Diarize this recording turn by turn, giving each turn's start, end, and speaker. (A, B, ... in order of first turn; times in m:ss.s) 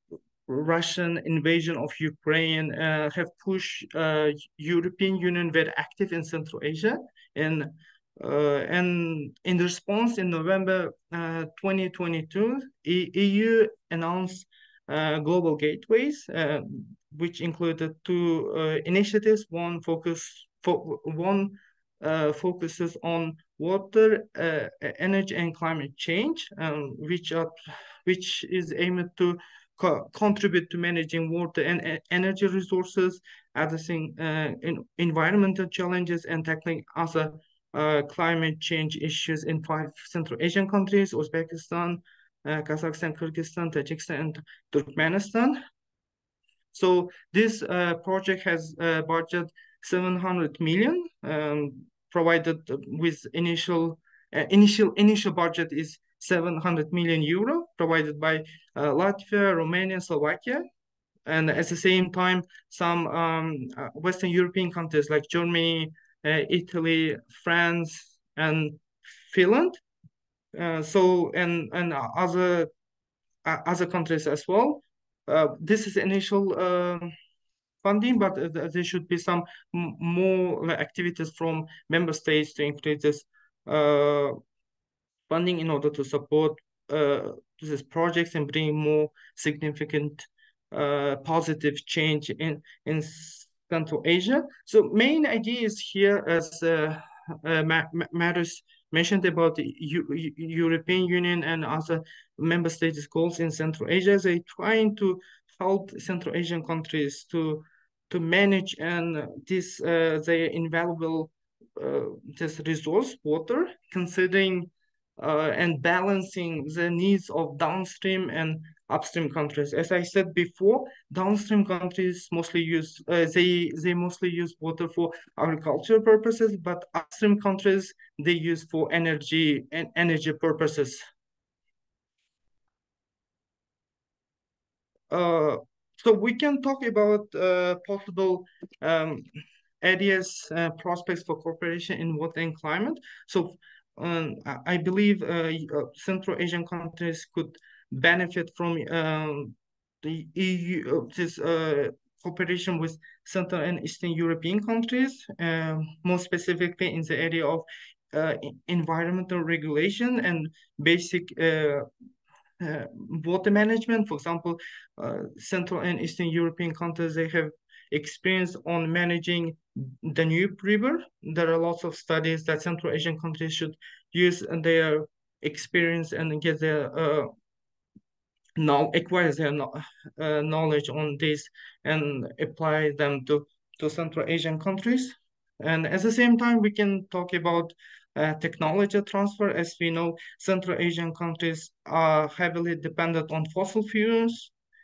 0:00.5-0:45.6 A
0:46.7-1:00.6 A
1:01.2-1:09.8 A
1:10.5-1:12.7 A
1:13.4-1:17.1 A
1:17.8-1:24.4 A
1:25.3-2:11.0 A
2:15.1-2:19.2 A
2:19.8-2:41.9 A
2:42.6-2:57.3 A
2:58.6-3:14.5 A